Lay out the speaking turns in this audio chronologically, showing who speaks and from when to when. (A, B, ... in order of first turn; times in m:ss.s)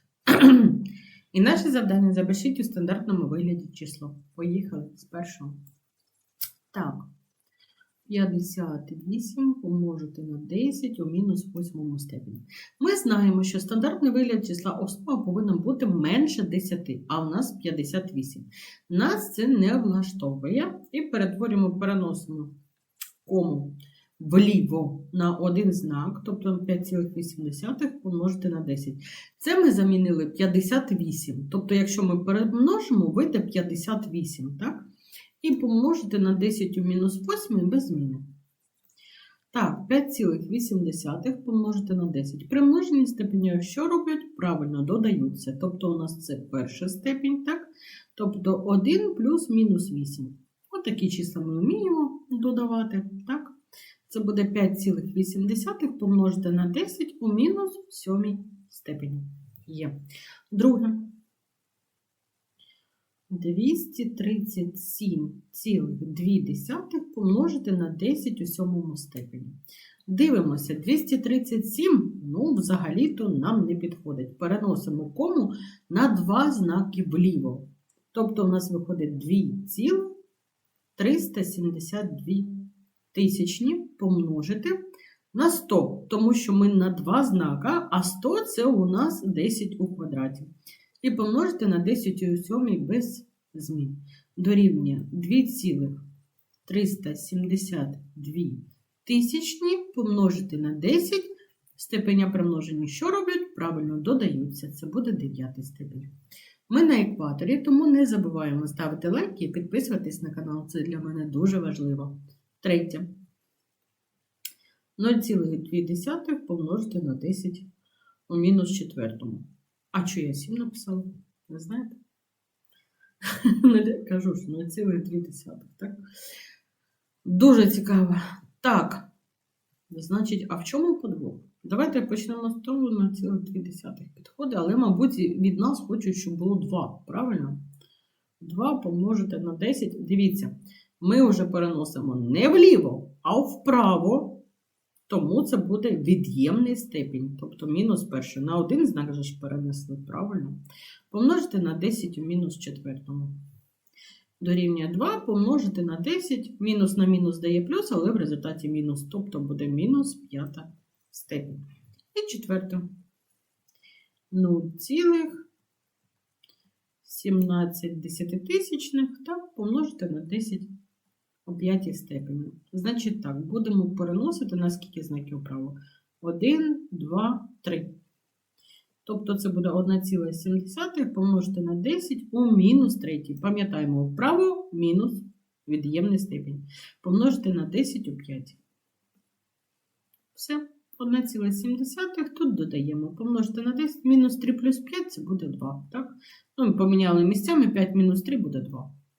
0:00.2-0:05.6 A
0:06.7-0:07.0 A
0:08.1-0:22.5 A
0:23.2-0:34.8 A
0:35.4-0:38.2 A
0:39.5-0:53.5 A
0:54.1-0:59.9 A
1:00.5-1:01.1 A
1:03.3-1:09.6 A
1:10.1-1:20.1 A
1:21.0-1:22.5 A
1:23.1-1:24.8 A
1:25.3-1:30.5 A
1:31.0-1:35.9 A
1:36.6-1:46.1 A
1:46.7-1:53.0 A
1:55.0-1:57.7 A
1:58.3-2:02.0 A
2:03.2-2:06.0 A
2:07.2-2:09.1 A
2:09.9-2:17.6 A
2:18.4-2:24.4 A
2:25.1-2:30.6 A
2:31.1-2:33.4 A
2:34.4-2:42.9 A
2:44.3-2:45.5 A
2:47.0-2:50.7 A
2:51.4-2:57.9 A
2:59.0-3:08.6 A
3:10.3-3:18.9 A